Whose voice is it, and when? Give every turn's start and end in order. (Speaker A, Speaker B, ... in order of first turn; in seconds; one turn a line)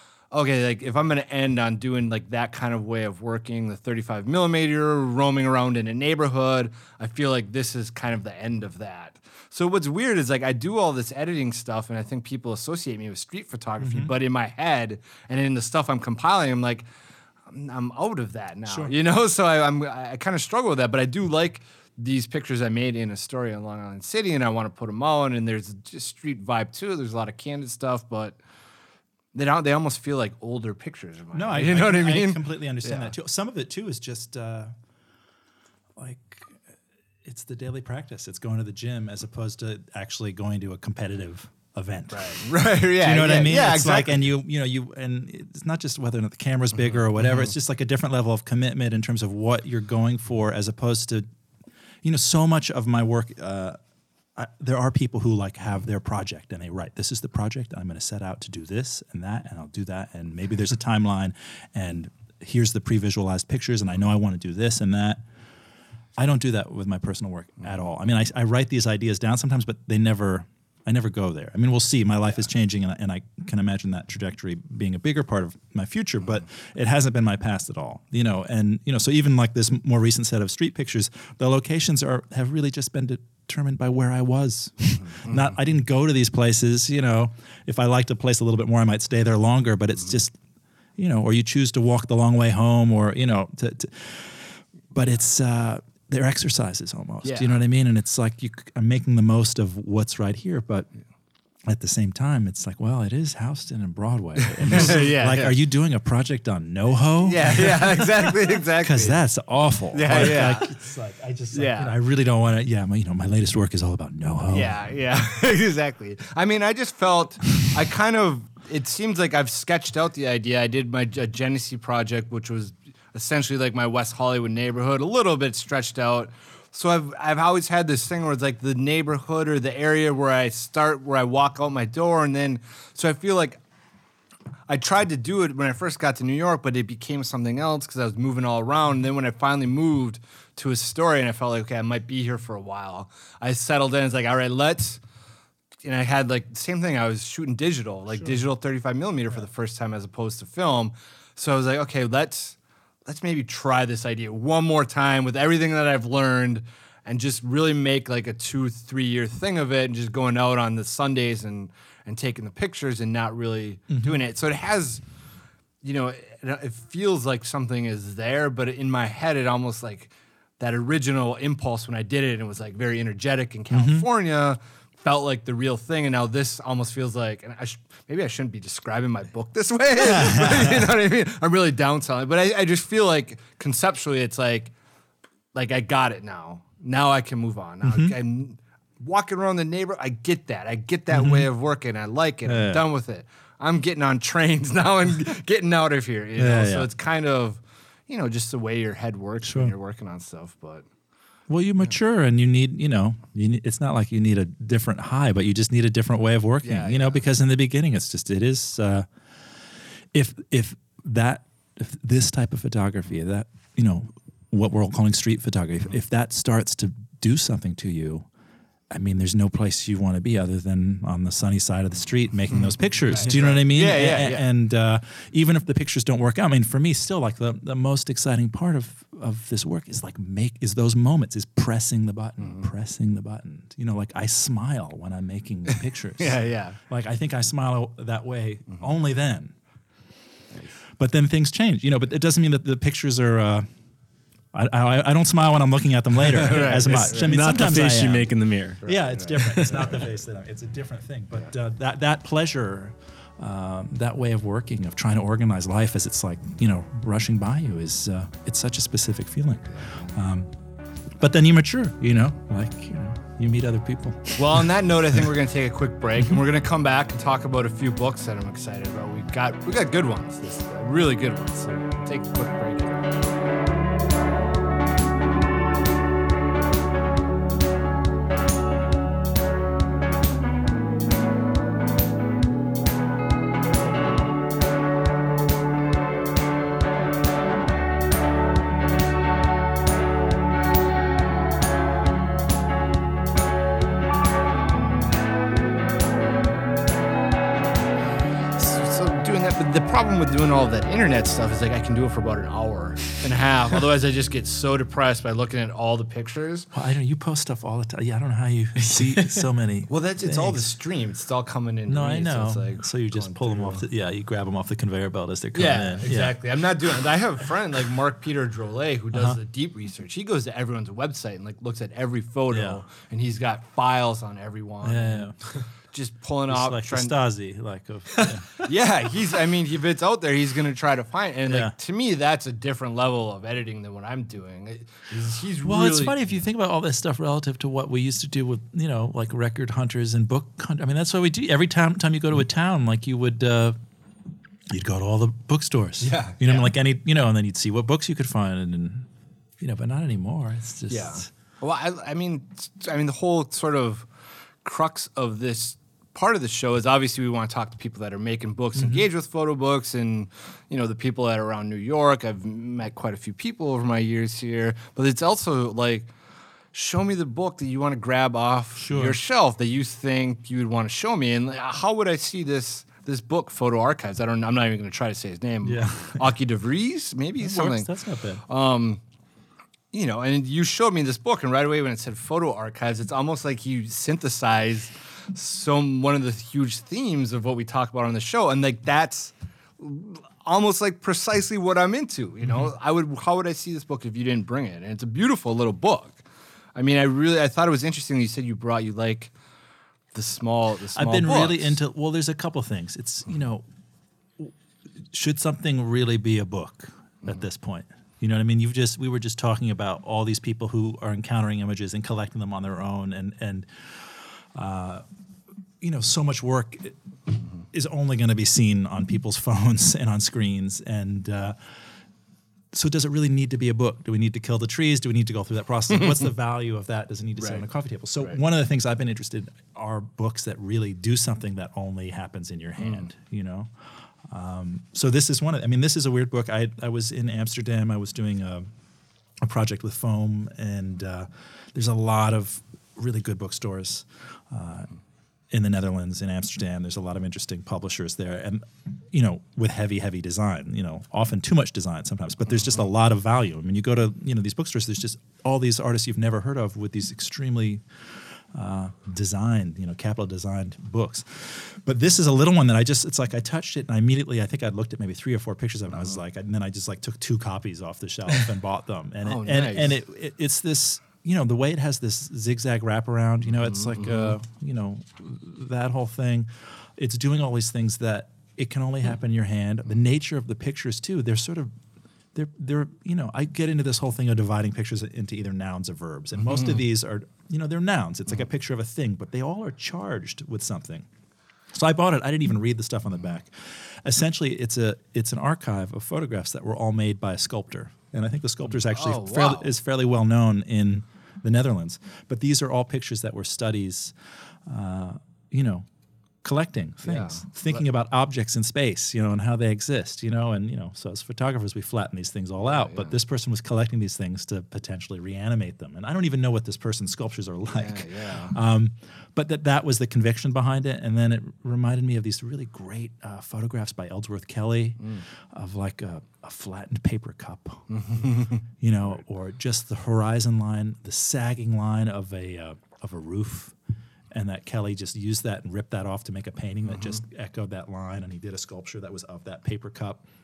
Speaker A: 0.3-16.9
Speaker B: 13.8-14.1
Speaker A: 17.5-28.4
Speaker B: 18.7-18.9
Speaker A: 29.3-33.1
Speaker B: 31.3-34.7
Speaker B: 36.0-36.6
Speaker B: 37.2-51.2
Speaker A: 42.1-44.2
Speaker A: 47.2-47.4
Speaker B: 52.0-53.8
Speaker B: 54.3-65.2
Speaker B: 66.2-90.3
Speaker A: 85.2-85.5
Speaker B: 91.0-100.9
Speaker A: 97.2-97.6
Speaker B: 101.7-114.8
Speaker A: 104.4-105.5
Speaker A: 107.2-109.2
Speaker A: 109.9-110.7
Speaker A: 111.5-111.9
Speaker A: 114.5-133.6
Speaker A: 134.7-145.0
Speaker A: 145.8-165.0
Speaker B: 163.9-164.2
Speaker A: 165.8-184.7
Speaker B: 173.7-174.1
Speaker B: 180.0-180.9
Speaker A: 185.5-200.8
Speaker B: 187.8-188.1
Speaker B: 191.1-191.5
Speaker B: 192.4-192.8
Speaker B: 196.4-196.9
Speaker B: 199.4-199.7
Speaker B: 201.5-209.1
Speaker A: 206.6-207.2
Speaker B: 210.1-218.3
Speaker B: 218.9-239.5
Speaker A: 222.6-224.4
Speaker A: 232.4-232.7
Speaker A: 236.2-236.8
Speaker B: 241.0-243.7
Speaker B: 244.5-248.3
Speaker A: 246.2-247.4
Speaker C: 246.8-249.9
Speaker A: 248.8-250.0
Speaker B: 248.8-260.5
Speaker B: 261.2-265.3
Speaker A: 264.4-273.2
Speaker A: 298.6-306.7
Speaker B: 306.7-310.6
Speaker A: 309.9-313.8
Speaker B: 311.9-316.4
Speaker A: 315.5-325.4
Speaker B: 319.1-319.4
Speaker B: 322.5-322.8
Speaker B: 324.8-325.4
Speaker A: 325.9-327.2
Speaker B: 326.5-328.6
Speaker A: 328.6-336.4
Speaker B: 331.5-331.7
Speaker B: 335.6-343.8
Speaker B: 344.7-349.1
Speaker A: 346.0-346.7
Speaker B: 349.6-351.3
Speaker A: 350.9-354.1
Speaker A: 354.6-366.1
Speaker B: 358.8-359.1
Speaker A: 366.7-377.9
Speaker B: 368.8-369.2
Speaker B: 375.6-376.3
Speaker B: 377.4-378.4
Speaker A: 378.4-379.0
Speaker A: 379.9-396.2
Speaker A: 396.7-399.3
Speaker A: 400.1-401.8
Speaker B: 400.9-403.6
Speaker B: 404.4-415.0
Speaker B: 415.8-421.8
Speaker B: 422.7-438.7
Speaker A: 427.4-427.6
Speaker A: 432.8-433.1
Speaker B: 439.4-444.9
Speaker B: 445.5-481.7
Speaker A: 469.2-469.9
Speaker A: 473.6-474.4
Speaker B: 482.3-491.1
Speaker A: 486.4-486.8
Speaker B: 491.7-505.9
Speaker A: 498.8-499.7
Speaker B: 506.4-527.9
Speaker A: 507.0-507.8
Speaker A: 512.6-513.1
Speaker A: 517.7-518.5
Speaker A: 525.0-525.2
Speaker A: 527.9-528.7
Speaker B: 528.7-533.7
Speaker B: 534.3-540.2
Speaker A: 536.9-537.2